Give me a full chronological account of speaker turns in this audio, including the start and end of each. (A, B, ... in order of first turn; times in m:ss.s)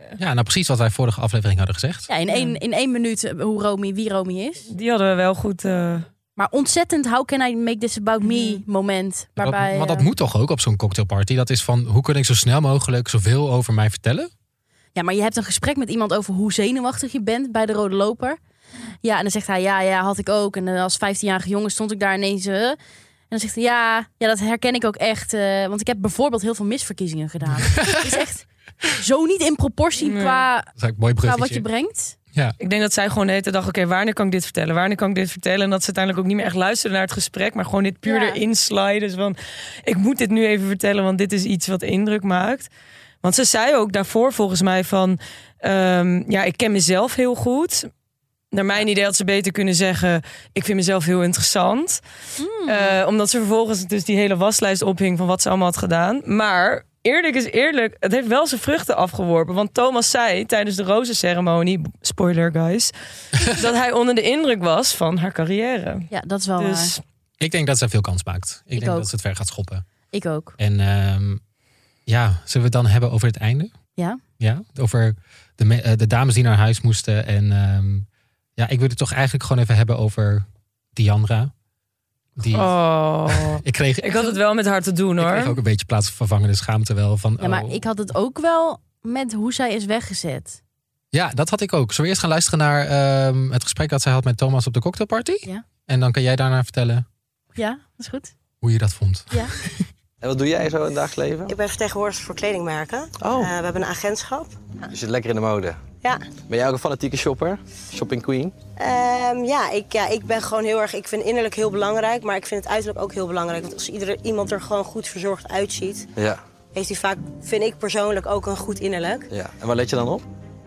0:00.2-0:02.1 A
0:02.1-0:04.6 B
0:02.3-0:02.6 C
0:04.7-0:06.0 C
0:06.4-0:10.1 B
0:08.2-0:08.6 C
0:09.4-0:14.3 A
0:14.9-0:18.4 B
0:19.0-0:22.8 B
0:23.3-0:30.7 B
0:27.4-0:28.2 A
0:30.0-0:30.4 C
0:30.8-0:31.6 A
0:31.2-0:32.2 B
0:32.6-0:42.7 C
0:38.0-0:38.4 B
0:43.2-0:47.9 C
0:48.5-0:52.0 C
0:52.4-0:53.0 B
0:52.6-1:07.0 C
1:06.1-1:06.9 B
1:07.4-1:09.8 A
1:08.7-1:09.1 B
1:10.1-1:10.5 B
1:10.6-1:11.4 A
1:12.1-1:13.7 A
1:14.4-1:21.5 A
1:22.4-1:22.8 A
1:22.5-1:25.6 C
1:23.3-1:24.4 A
1:25.2-1:27.8 A
1:27.4-1:30.6 B
1:31.1-1:37.0 A
1:37.6-1:38.3 B
1:38.6-1:39.8 A
1:40.2-1:41.5 D
1:41.5-1:44.9 E
1:44.9-1:45.8 D
1:46.5-1:48.5 D
1:48.8-1:56.1 E
1:56.2-1:56.4 D
1:56.7-1:59.3 E
1:59.3-2:00.2 D